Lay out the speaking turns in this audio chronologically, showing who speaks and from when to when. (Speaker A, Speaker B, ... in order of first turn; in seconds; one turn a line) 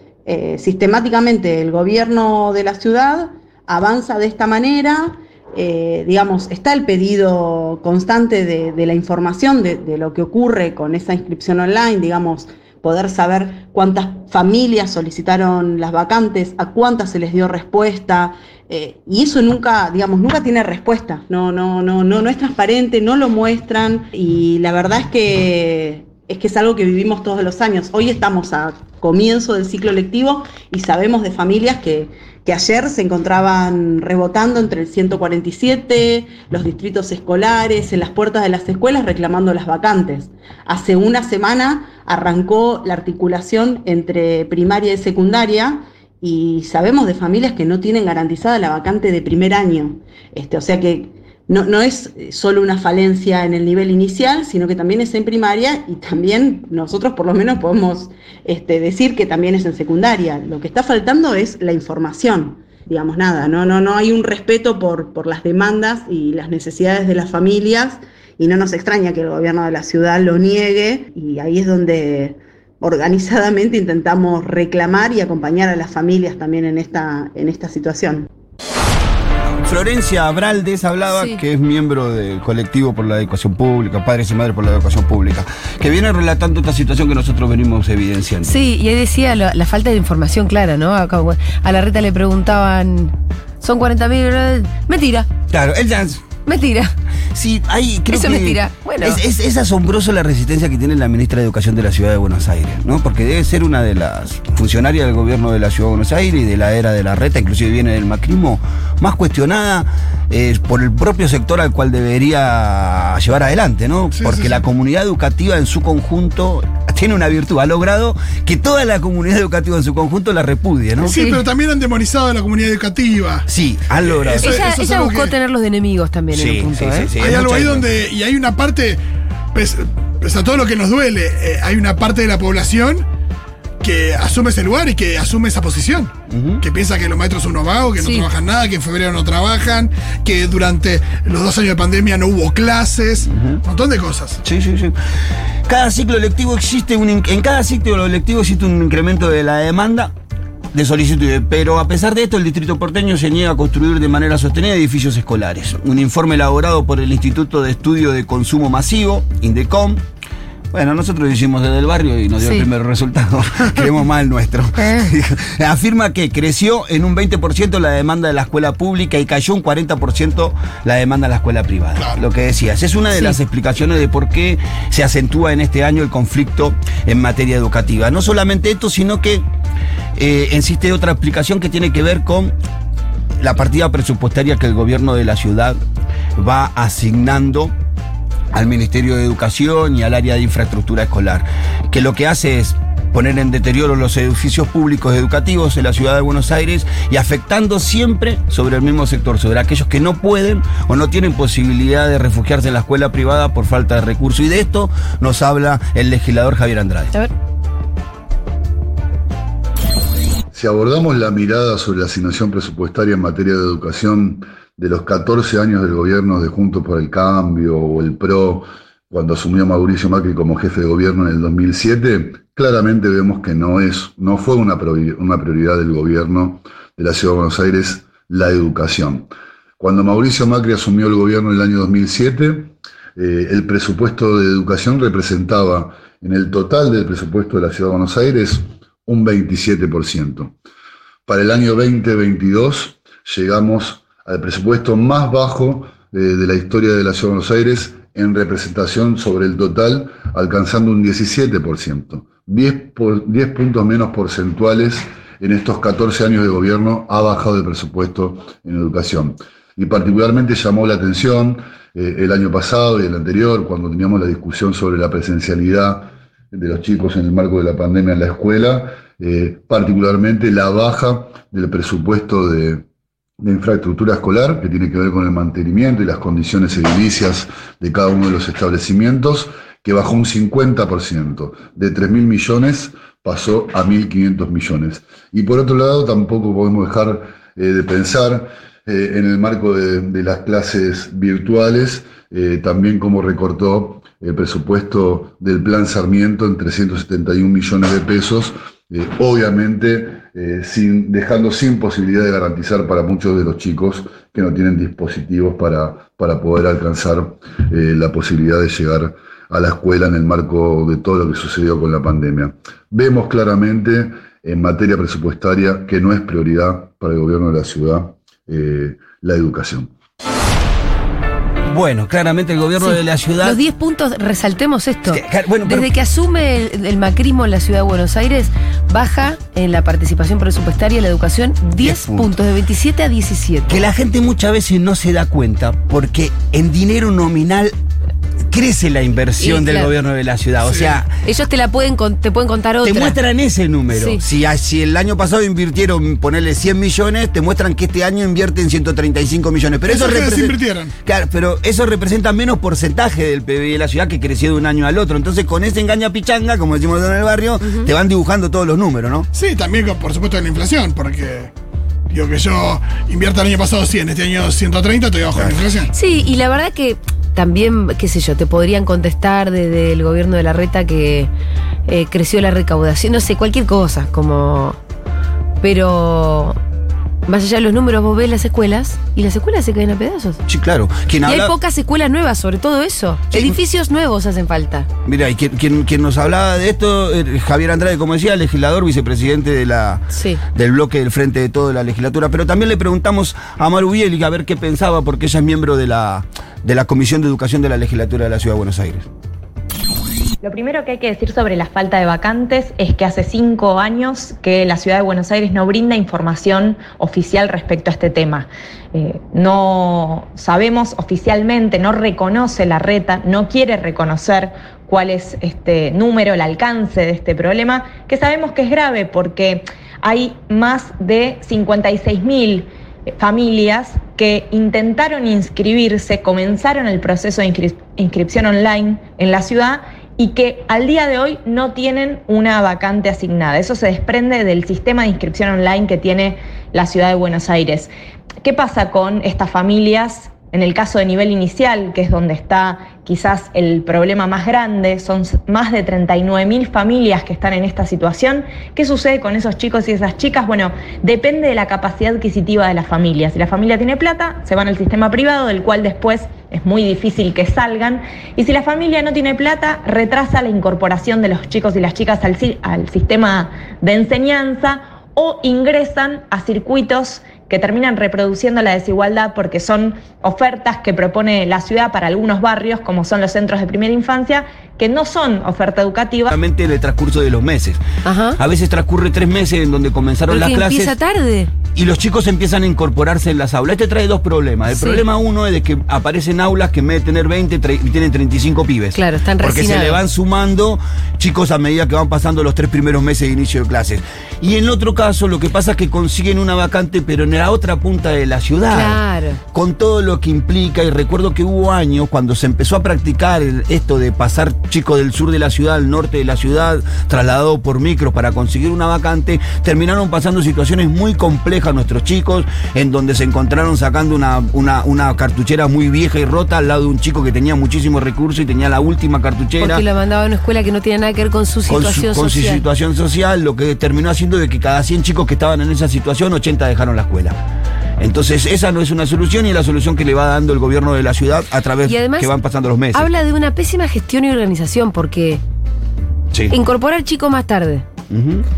Speaker A: 0.3-78.3
Speaker B: 79.6-88.5
Speaker C: 81.2-81.4
Speaker C: 88.4-95.3
Speaker B: 95.5-96.2
Speaker C: 96.5-96.9
Speaker B: 97.3-121.2
Speaker C: 98.1-99.2
Speaker D: 114.2-114.6
Speaker D: 121.0-123.5
Speaker C: 121.0-121.4
Speaker B: 123.5-124.6
Speaker D: 124.0-125.3
Speaker C: 124.4-127.1
Speaker B: 126.3-127.9
Speaker D: 127.2-129.0
Speaker D: 129.5-133.1
Speaker D: 133.8-144.4
Speaker B: 136.3-136.6
Speaker C: 138.0-138.3
Speaker B: 143.3-143.6
Speaker B: 144.4-145.0
Speaker B: 145.7-150.1
Speaker B: 150.7-160.0
Speaker B: 160.7-179.4
Speaker C: 162.4-162.7
Speaker C: 164.8-165.1
Speaker D: 172.0-172.2
Speaker B: 180.2-182.6
Speaker B: 183.4-185.8
Speaker B: 186.4-187.7
Speaker B: 188.5-207.1
Speaker E: 210.5-240.6
Speaker E: 241.3-272.9
Speaker E: 273.4-319.9
Speaker B: 321.7-323.6
Speaker C: 322.8-333.8
Speaker B: 325.1-325.9
Speaker B: 331.8-332.3
Speaker B: 333.7-337.7
Speaker B: 338.5-341.1
Speaker C: 339.4-339.9
Speaker D: 340.6-341.0
Speaker C: 341.2-343.2
Speaker B: 342.8-359.3
Speaker C: 343.9-344.2
Speaker D: 349.9-350.9
Speaker C: 357.6-357.9
Speaker D: 359.3-361.5
Speaker D: 362.1-365.9
Speaker B: 365.3-365.6
Speaker C: 365.9-371.3
Speaker C: 371.9-374.8
Speaker C: 375.6-376.6
Speaker C: 377.3-380.4
Speaker B: 380.5-381.5
Speaker C: 381.2-384.9
Speaker B: 383.3-383.6
Speaker B: 385.1-399.1
Speaker C: 390.1-390.4
Speaker F: 400.4-437.9
Speaker F: 438.4-476.3
Speaker B: 476.3-477.8
Speaker C: 478.0-478.4
Speaker B: 478.4-480.9
Speaker C: 480.3-481.5
Speaker B: 481.8-499.0
Speaker C: 484.7-485.0
Speaker C: 488.9-490.0
Speaker C: 498.7-499.4
Speaker B: 499.5-519.8
Speaker C: 519.6-522.6
Speaker B: 521.7-527.4
Speaker B: 528.0-533.1
Speaker C: 531.9-532.3
Speaker C: 532.9-535.4
Speaker C: 536.5-537.9
Speaker B: 538.1-538.5